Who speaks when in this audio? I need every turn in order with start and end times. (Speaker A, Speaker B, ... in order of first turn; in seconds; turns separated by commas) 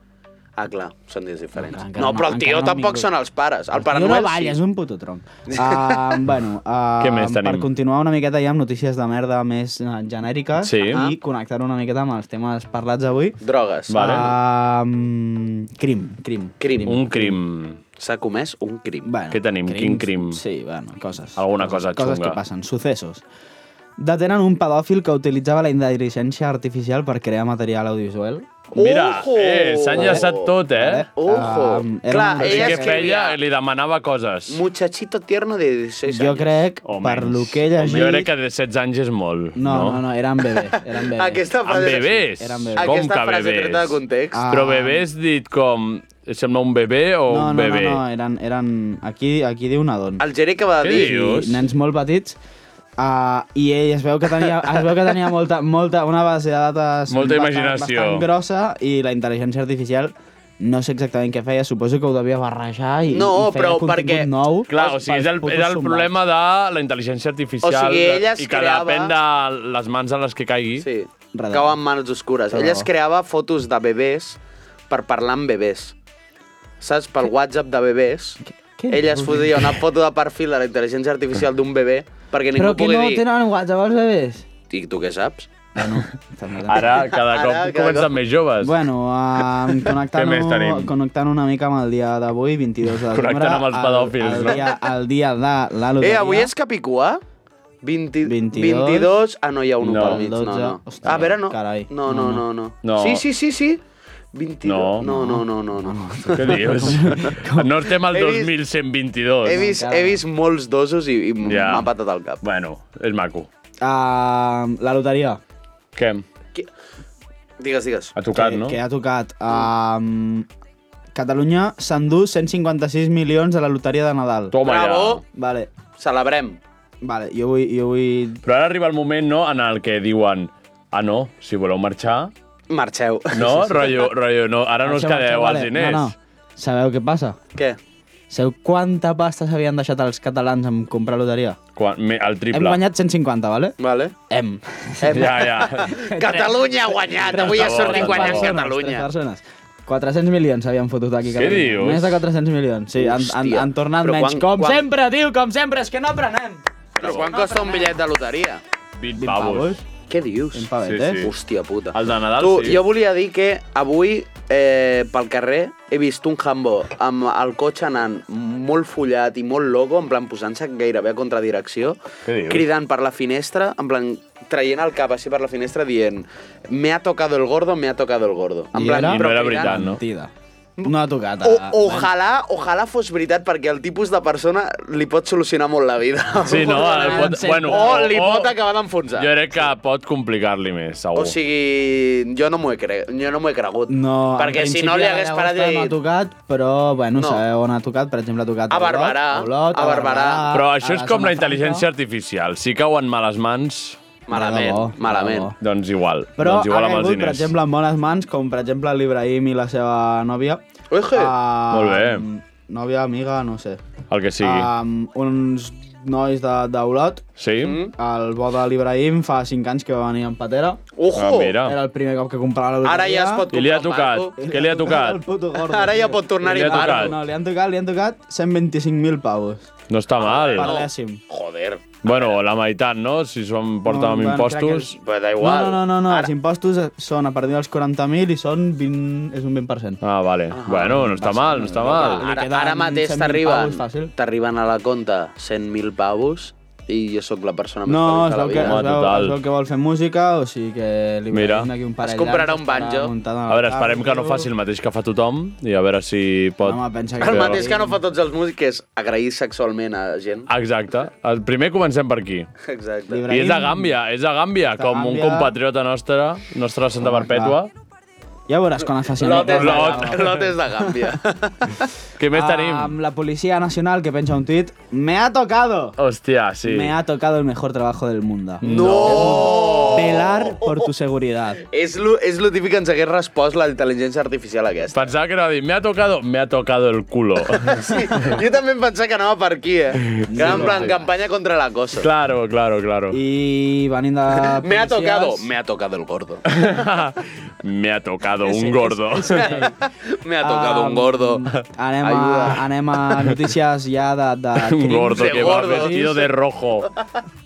Speaker A: 0.6-4.6, Speaker B: 1.6-3.1, Speaker B: 3.8-13.4, Speaker A: 5.5-6.2, Speaker C: 7.0-7.7, Speaker C: 10.6-11.0, Speaker A: 10.9-11.2, Speaker A: 13.4-13.9, Speaker C: 13.9-14.3, Speaker B: 13.9-17.3, Speaker A: 16.6-17.1, Speaker C: 16.8-17.8, Speaker A: 18.0-19.1, Speaker B: 19.0-23.2, Speaker C: 19.3-20.4, Speaker C: 21.4-22.4, Speaker B: 24.0-28.5, Speaker C: 28.7-31.1, Speaker A: 28.7-30.5, Speaker B: 29.9-33.0, Speaker A: 31.1-33.4, Speaker C: 32.4-34.6, Speaker A: 34.5-36.6, Speaker B: 36.1-38.3, Speaker C: 36.8-40.0, Speaker B: 39.6-41.4, Speaker A: 40.6-44.4, Speaker C: 41.6-48.0, Speaker B: 42.3-42.9, Speaker B: 44.3-45.0, Speaker B: 47.3-50.2, Speaker A: 50.2-51.1, Speaker C: 50.8-51.6, Speaker B: 50.9-52.4, Speaker B: 53.0-66.1, Speaker C: 57.1-58.2, Speaker A: 63.1-65.0, Speaker C: 64.7-70.9, Speaker A: 67.6-69.1, Speaker A: 70.8-74.4, Speaker B: 71.3-71.8, Speaker B: 72.5-72.9, Speaker A: 74.9-75.9, Speaker A: 76.8-78.4, Speaker B: 78.4-79.8, Speaker A: 78.9-83.2, Speaker B: 82.5-84.4, Speaker A: 84.7-85.5, Speaker B: 85.7-87.0, Speaker C: 86.7-88.8, Speaker A: 86.7-88.1, Speaker B: 88.6-96.5, Speaker C: 89.8-90.9, Speaker C: 93.0-94.7, Speaker A: 96.0-97.2, Speaker A: 97.8-103.8, Speaker B: 98.2-99.1, Speaker C: 99.8-100.2, Speaker B: 99.9-102.4, Speaker C: 101.0-101.3, Speaker C: 102.8-103.2, Speaker A: 104.3-106.9, Speaker C: 104.6-105.1, Speaker B: 105.0-107.8, Speaker C: 106.3-109.6, Speaker A: 108.0-108.5, Speaker A: 109.4-112.4, Speaker B: 109.5-110.2, Speaker C: 111.4-111.9, Speaker C: 112.4-113.5, Speaker B: 113.8-115.4, Speaker C: 115.9-116.2, Speaker A: 117.6-118.1, Speaker C: 118.2-118.8, Speaker B: 118.3-120.5, Speaker B: 121.1-124.5, Speaker C: 124.5-125.2, Speaker A: 124.6-125.2, Speaker B: 125.3-125.7, Speaker A: 126.0-126.6, Speaker B: 127.0-128.4, Speaker C: 128.4-132.3, Speaker A: 132.7-134.1, Speaker C: 133.3-136.1, Speaker B: 134.8-137.4, Speaker B: 138.3-141.6, Speaker C: 141.8-142.8, Speaker B: 142.5-143.8, Speaker A: 143.8-144.1, Speaker B: 144.3-157.9, Speaker A: 145.0-149.1, Speaker C: 145.0-145.9, Speaker C: 147.3-148.6, Speaker C: 151.3-152.2, Speaker A: 152.9-154.8, Speaker A: 157.0-158.6, Speaker C: 159.0-159.7, Speaker B: 159.2-159.8, Speaker A: 160.1-160.7, Speaker B: 160.5-161.3, Speaker C: 160.8-161.3, Speaker A: 161.2-179.7, Speaker C: 161.9-162.8, Speaker C: 172.2-172.7, Speaker B: 178.7-180.3, Speaker C: 178.9-180.0, Speaker B: 180.8-182.1, Speaker A: 181.4-189.4, Speaker C: 186.4-188.5, Speaker B: 186.7-188.0, Speaker C: 189.2-191.3, Speaker A: 191.1-196.0, Speaker B: 193.9-201.8, Speaker A: 197.2-197.4, Speaker A: 198.7-200.6, Speaker C: 200.5-204.0, Speaker A: 204.3-205.5, Speaker B: 204.3-205.6, Speaker C: 205.6-207.5, Speaker B: 206.4-210.6, Speaker A: 210.9-211.3, Speaker B: 211.1-213.8, Speaker C: 211.7-212.3, Speaker C: 214.1-214.7, Speaker B: 214.4-217.2, Speaker C: 217.4-217.8, Speaker A: 217.6-217.9, Speaker B: 218.0-220.8, Speaker A: 220.9-221.6, Speaker C: 221.1-221.8, Speaker B: 221.6-223.4, Speaker A: 222.8-224.4, Speaker C: 223.5-225.2, Speaker B: 224.4-229.7, Speaker A: 225.6-227.2, Speaker C: 226.4-227.1, Speaker C: 229.9-230.7, Speaker A: 230.2-232.3, Speaker B: 230.5-231.2, Speaker C: 232.0-234.9, Speaker B: 233.8-240.0, Speaker A: 235.0-236.3, Speaker C: 240.0-242.3, Speaker A: 240.5-241.2, Speaker B: 241.0-244.1, Speaker A: 241.8-248.7, Speaker B: 247.9-254.5, Speaker C: 248.6-249.3, Speaker C: 251.3-251.7, Speaker A: 252.0-253.1, Speaker C: 253.5-257.6, Speaker B: 256.6-258.0, Speaker A: 257.2-260.5, Speaker C: 260.5-262.5, Speaker A: 262.6-263.2, Speaker B: 263.1-263.9, Speaker C: 263.3-267.7, Speaker B: 264.8-265.5, Speaker B: 267.0-267.6, Speaker B: 268.5-271.1, Speaker A: 269.2-271.8, Speaker C: 269.4-270.4, Speaker C: 272.2-272.9, Speaker B: 272.3-276.0, Speaker C: 276.0-276.9, Speaker B: 276.6-281.6, Speaker C: 278.6-280.2, Speaker A: 278.6-280.8, Speaker A: 281.6-285.1, Speaker C: 284.9-288.3, Speaker A: 287.5-292.1, Speaker C: 290.0-291.0, Speaker B: 290.3-291.0, Speaker C: 292.0-293.2, Speaker B: 293.1-295.4, Speaker A: 294.4-296.4, Speaker C: 296.5-299.7, Speaker A: 298.4-301.4, Speaker B: 299.1-299.7, Speaker B: 300.4-306.1, Speaker A: 302.0-302.6, Speaker C: 304.6-306.9, Speaker A: 305.1-306.3